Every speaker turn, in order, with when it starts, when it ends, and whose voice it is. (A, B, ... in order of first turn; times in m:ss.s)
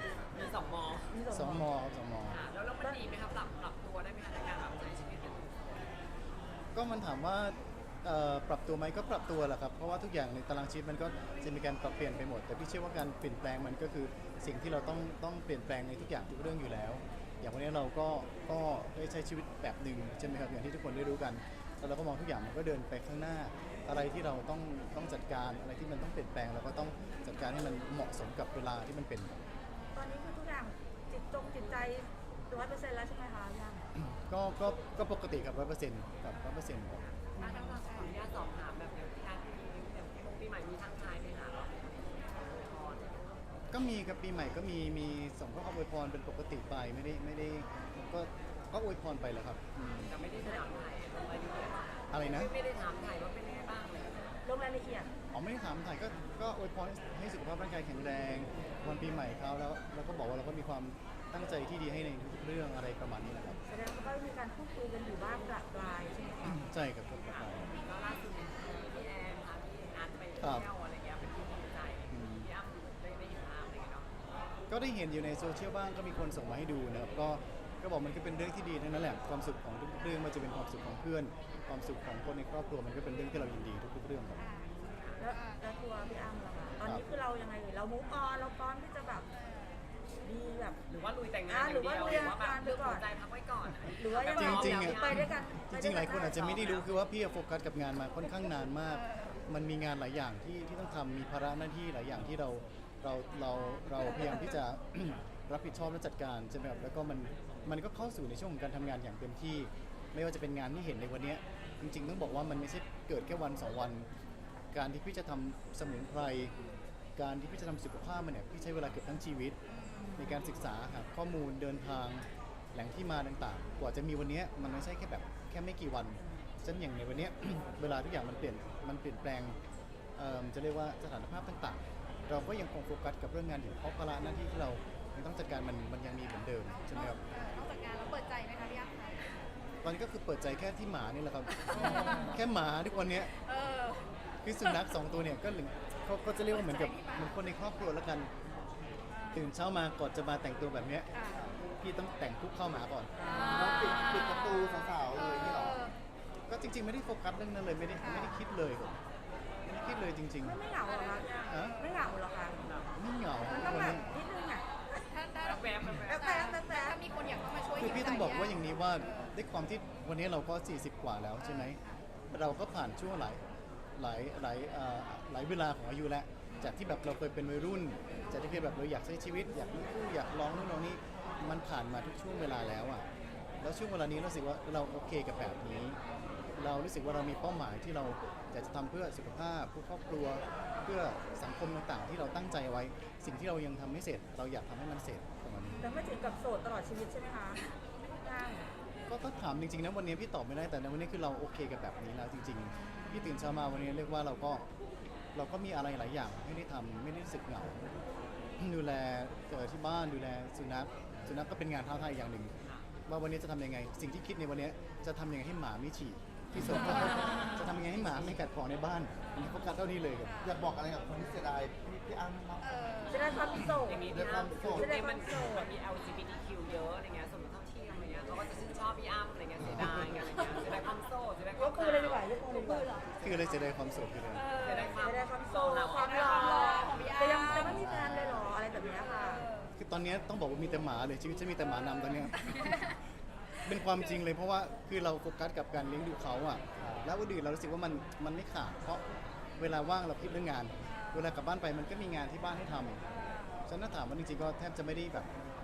0:00.3-0:01.2 A
0:01.1-0:01.7 B
0:01.3-0:02.4 C
0:02.3-0:05.9 A
0:06.7-0:29.4 C
0:30.0-0:33.8 B
0:34.0-0:37.1 C
0:37.4-0:37.9 B
0:37.4-0:43.4 A
0:43.7-0:50.1 C
0:50.1-0:54.4 A
0:52.1-0:52.5 C
0:54.4-0:55.1 B
0:55.3-1:03.6 C
1:03.7-1:06.7 B
1:06.4-1:07.8 C
1:07.3-1:14.2 A
1:10.4-1:10.7 C
1:12.1-1:12.5 C
1:14.7-1:24.5 C
1:24.4-1:25.6 D
1:24.9-1:25.1 A
1:25.2-1:29.3 B
1:29.3-1:29.9 D
1:30.2-1:30.8 B
1:30.9-1:35.3 A
1:31.5-1:33.1 B
1:34.0-1:36.4 B
1:34.3-1:54.1 C
1:36.3-1:36.9 A
1:54.7-1:56.5 C
1:57.2-1:59.6 C
2:00.2-2:09.6 C
2:10.2-2:17.2 C
2:16.8-2:19.3 D
2:19.8-2:23.3 C
2:21.6-2:22.4 D
2:23.3-2:24.1 D
2:24.4-2:28.3 C
2:26.5-2:27.3 D
2:29.1-2:29.5 D
2:29.3-2:31.1 C
2:31.1-2:31.5 D
2:31.8-2:33.1 C
2:33.2-2:35.9 D
2:33.4-2:35.9 E
2:36.5-2:39.0 C
2:38.0-2:38.3 D
2:39.6-2:40.6 C
2:40.4-2:42.6 B
2:40.9-2:41.9 D
2:41.5-2:41.8 C
2:42.6-2:42.9 A
2:43.0-2:44.1 C
2:43.4-2:44.7 B
2:45.1-2:45.6 D
2:45.4-2:46.3 A
2:46.1-2:47.0 B
2:46.1-2:49.3 D
2:47.8-2:51.8 C
2:51.5-2:51.8 D
2:52.3-2:53.4 C
2:54.0-3:03.0 C
3:03.6-3:06.0 C
3:06.5-3:15.8 C
3:15.8-3:17.6 B
3:18.2-3:18.7 B
3:19.1-3:24.7 C
3:25.4-3:27.8 C
3:28.6-3:32.5 C
3:33.1-3:40.4 C
3:40.2-3:40.6 D
3:40.4-3:42.7 E
3:42.6-3:43.7 D
3:43.1-3:44.1 B
3:43.9-3:52.3 A
3:44.1-3:45.0 E
3:44.6-3:45.7 B
3:49.6-3:50.1 C
3:51.6-3:53.0 B
3:52.5-3:53.2 D
3:53.2-3:54.4 C
3:54.3-3:55.0 D
3:54.6-3:57.0 A
3:55.0-3:59.5 B
3:56.0-3:57.8 D
3:57.4-3:58.5 C
3:58.9-3:59.7 D
3:59.8-4:02.9 C
4:02.4-4:02.9 D
4:03.7-4:09.0 C
4:09.6-4:13.0 C
4:10.9-4:11.2 D
4:13.1-4:13.6 D
4:13.7-4:15.3 C